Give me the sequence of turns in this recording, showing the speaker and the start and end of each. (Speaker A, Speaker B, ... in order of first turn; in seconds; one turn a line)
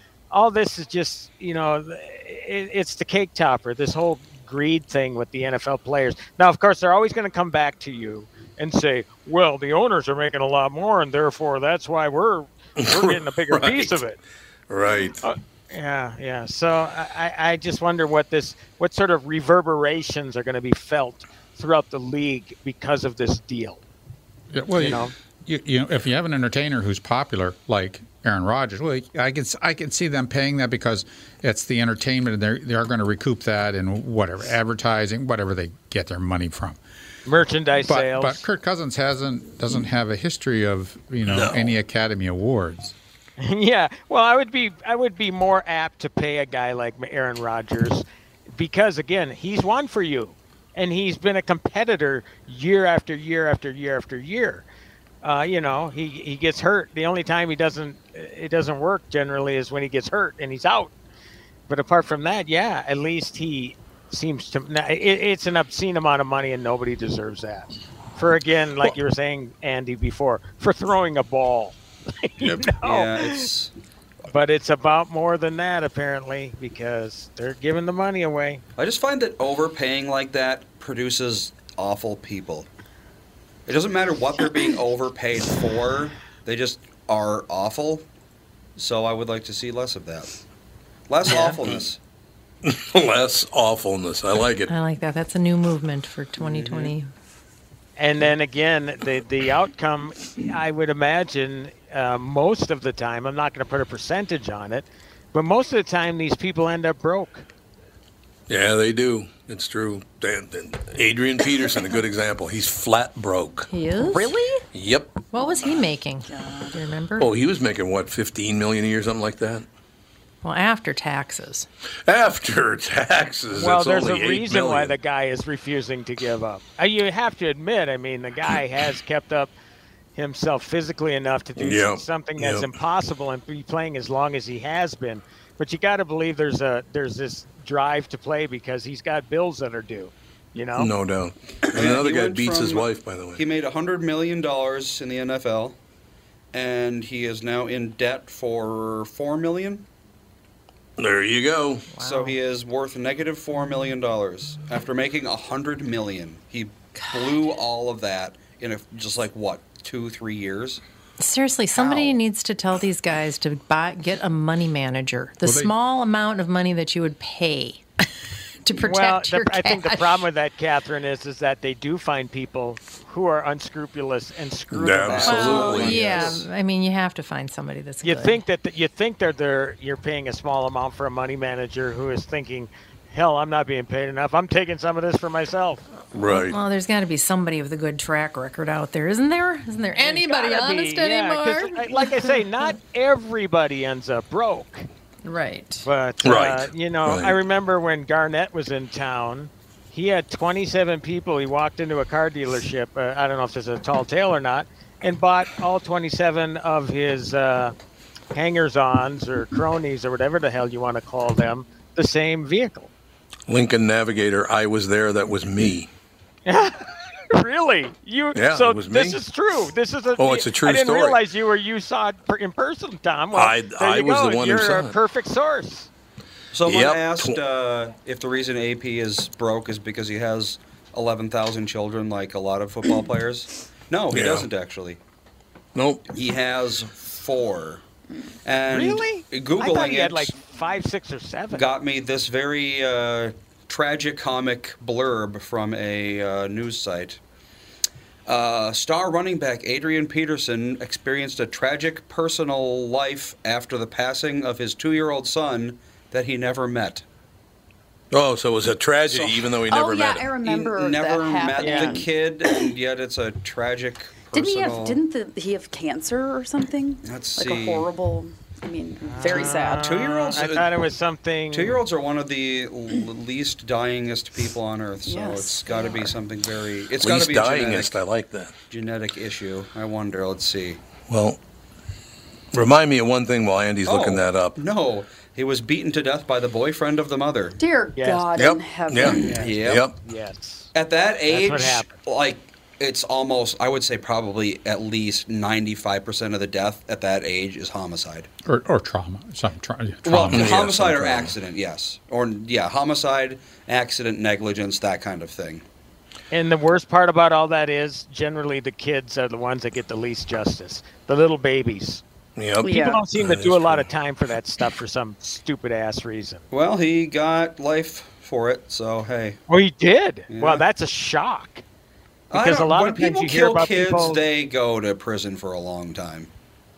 Speaker A: 0.3-14.2
Speaker B: 12.8-14.0
Speaker B: 14.7-15.2
Speaker A: 15.2-23.8
Speaker C: 24.5-36.8
Speaker A: 24.8-25.1
Speaker A: 37.2-38.4
Speaker C: 37.8-42.9
Speaker B: 41.2-41.8
Speaker A: 43.4-54.6
Speaker A: 55.2-60.9
Speaker A: 61.7-73.5
Speaker D: 72.8-73.7
Speaker A: 74.3-78.6
Speaker D: 78.8-82.7
Speaker D: 83.7-88.0
Speaker D: 88.8-90.3
Speaker D: 91.1-92.0
Speaker A: 91.2-91.6
Speaker B: 92.6-94.7
Speaker E: 94.7-97.1
Speaker D: 96.4-96.9
Speaker A: 98.0-107.4
Speaker B: 108.5-113.7
Speaker E: 113.7-114.6
Speaker B: 114.7-115.2
Speaker E: 115.3-117.3
Speaker F: 115.4-115.7
Speaker F: 116.2-116.8
Speaker B: 117.2-119.7
Speaker E: 120.4-121.7
Speaker B: 122.1-124.9
Speaker A: 123.5-129.5
Speaker A: 130.2-140.9
Speaker B: 131.6-132.7
Speaker B: 140.8-143.4
Speaker D: 141.7-145.8
Speaker D: 146.5-149.9
Speaker B: 151.0-151.9
Speaker E: 151.9-152.4
Speaker D: 152.0-160.8
Speaker E: 161.2-167.8
Speaker C: 165.4-165.7
Speaker E: 168.6-170.3
Speaker A: 168.8-175.9
Speaker B: 174.7-176.3
Speaker D: 175.0-176.4
Speaker E: 175.2-178.4
Speaker A: 178.0-185.8
Speaker B: 186.1-186.6
Speaker E: 186.3-192.7
Speaker A: 190.0-194.9
Speaker E: 195.2-195.9
Speaker A: 195.8-207.7
Speaker B: 196.2-197.3
Speaker A: 208.3-212.9
Speaker B: 213.5-215.9
Speaker A: 216.4-225.9
Speaker B: 218.3-219.2
Speaker B: 220.2-221.2
Speaker B: 223.3-224.9
Speaker D: 226.5-235.0
Speaker B: 226.7-227.4
Speaker B: 234.1-234.4
Speaker B: 235.8-236.1
Speaker D: 236.1-237.8
Speaker D: 238.4-240.4
Speaker A: 238.7-241.7
Speaker D: 241.6-247.2
Speaker D: 248.3-257.1
Speaker B: 258.1-260.3
Speaker D: 259.1-259.5
Speaker F: 259.7-262.7
Speaker D: 260.4-265.0
Speaker A: 261.6-262.1
Speaker F: 264.3-269.9
Speaker D: 267.0-267.9
Speaker A: 269.0-271.8
Speaker D: 269.2-270.6
Speaker D: 271.5-278.0
Speaker F: 275.1-276.2
Speaker B: 277.0-278.5
Speaker D: 278.7-280.8
Speaker B: 281.1-281.4
Speaker B: 282.5-284.6
Speaker D: 283.9-287.6
Speaker F: 287.6-289.4
Speaker A: 287.9-288.3
Speaker B: 288.4-289.9
Speaker D: 289.2-289.9
Speaker A: 289.2-290.7
Speaker D: 290.7-298.3
Speaker A: 291.3-291.9
Speaker C: 298.4-300.8
Speaker D: 300.1-305.6
Speaker B: 300.3-301.3
Speaker A: 306.3-312.0
Speaker B: 312.4-313.9
Speaker F: 312.6-313.0
Speaker A: 312.6-316.4
Speaker D: 316.5-319.4
Speaker A: 319.5-321.6
Speaker D: 320.3-320.6
Speaker D: 322.3-326.3
Speaker A: 322.3-324.2